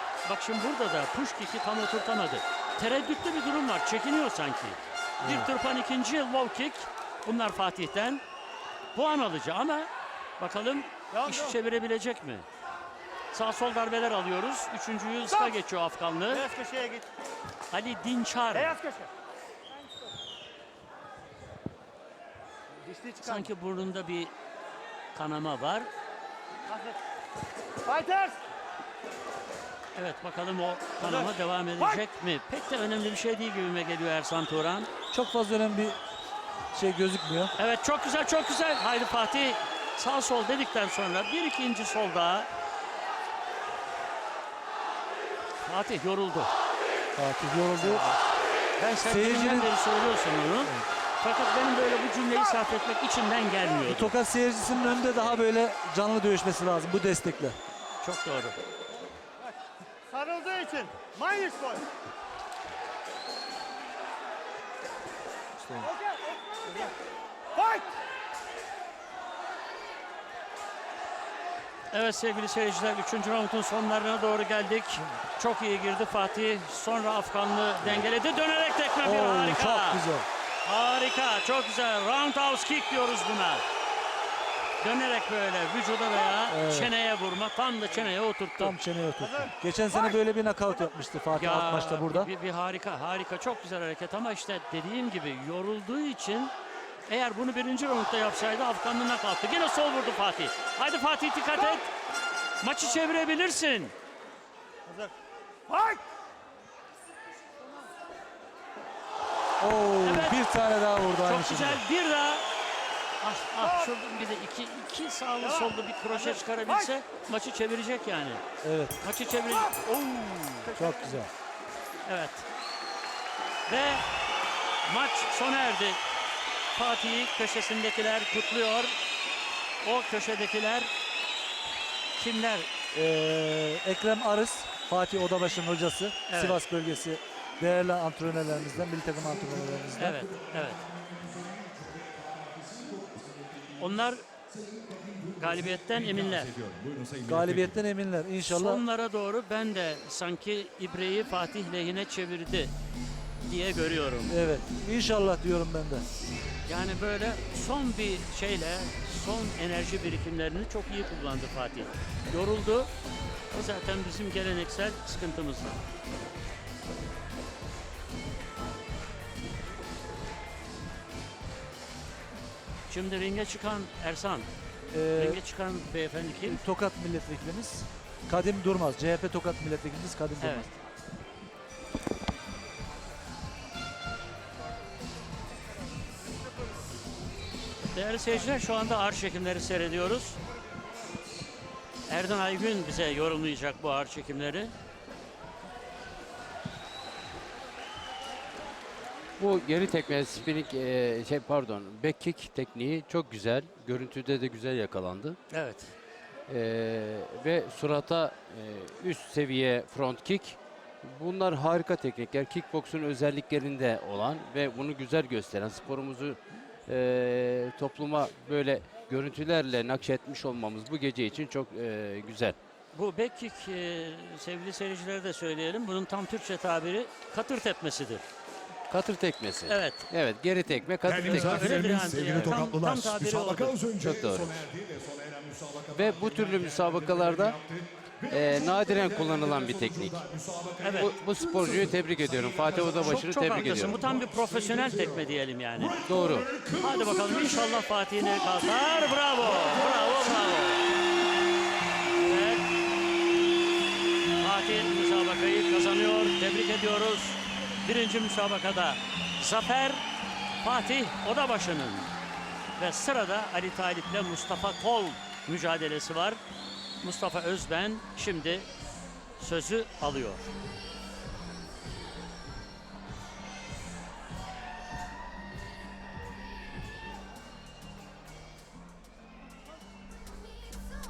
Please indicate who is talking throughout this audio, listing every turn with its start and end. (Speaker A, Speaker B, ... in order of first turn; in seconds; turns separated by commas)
Speaker A: 0.2-8.2, Speaker B: 5.2-5.5, Speaker A: 8.9-12.5, Speaker C: 11.1-11.4, Speaker A: 13.3-16.5, Speaker C: 16.4-17.1, Speaker A: 17.7-18.8, Speaker C: 18.6-19.1, Speaker C: 22.8-23.4, Speaker A: 23.2-24.3, Speaker A: 25.1-25.9, Speaker C: 26.7-27.0, Speaker C: 27.8-28.4, Speaker A: 29.9-34.9, Speaker B: 35.1-36.0, Speaker B: 36.7-37.5, Speaker A: 37.6-42.5, Speaker A: 45.6-46.5, Speaker B: 47.2-48.1, Speaker A: 47.8-48.2, Speaker A: 48.8-54.1, Speaker B: 49.1-49.7, Speaker B: 53.8-57.6, Speaker A: 58.0-58.6, Speaker C: 60.1-61.9, Speaker B: 65.6-65.9, Speaker C: 66.6-66.9, Speaker C: 67.5-68.0, Speaker A: 71.9-80.0, Speaker B: 79.0-80.3, Speaker A: 80.6-83.7, Speaker A: 84.8-88.8, Speaker B: 86.5-86.9, Speaker B: 88.6-92.3, Speaker A: 91.3-96.5, Speaker A: 97.1-101.9, Speaker A: 102.6-103.9, Speaker C: 104.9-105.1, Speaker C: 105.7-106.0, Speaker B: 109.6-111.8, Speaker A: 110.0-110.4, Speaker A: 111.2-112.5, Speaker A: 113.2-118.4, Speaker B: 118.6-119.0, Speaker A: 119.0-120.8, Speaker B: 120.8-121.3, Speaker A: 122.0-122.5, Speaker A: 123.7-124.0, Speaker A: 124.8-126.0, Speaker A: 126.8-128.9, Speaker A: 129.8-130.9, Speaker A: 132.2-132.7, Speaker B: 132.9-140.2, Speaker A: 136.3-136.6, Speaker D: 139.7-144.0, Speaker A: 139.9-140.8, Speaker A: 143.8-144.2, Speaker D: 144.5-147.8, Speaker A: 145.4-146.5, Speaker B: 147.2-148.8, Speaker A: 148.5-152.7, Speaker A: 153.4-154.4, Speaker B: 154.3-156.1, Speaker A: 156.7-162.9, Speaker A: 163.5-165.8, Speaker A: 172.9-174.5, Speaker B: 174.9-175.4, Speaker A: 175.2-176.6, Speaker B: 176.5-180.7, Speaker A: 180.4-180.7, Speaker A: 187.9-190.4, Speaker A: 192.1-194.7, Speaker E: 199.4-205.4, Speaker A: 205.5-205.9, Speaker E: 206.5-222.6, Speaker A: 222.9-228.2, Speaker E: 228.9-232.7, Speaker A: 229.7-230.1, Speaker D: 231.1-250.4, Speaker A: 231.2-233.8, Speaker E: 234.0-234.6, Speaker E: 235.9-237.6, Speaker E: 238.3-240.3, Speaker A: 240.8-241.1, Speaker E: 241.0-244.0, Speaker A: 243.0-246.0, Speaker E: 246.0-246.5, Speaker A: 246.8-250.9, Speaker A: 252.2-252.6, Speaker A: 254.4-260.1, Speaker A: 260.6-262.1, Speaker A: 262.8-266.4, Speaker A: 267.0-268.7, Speaker A: 269.4-270.5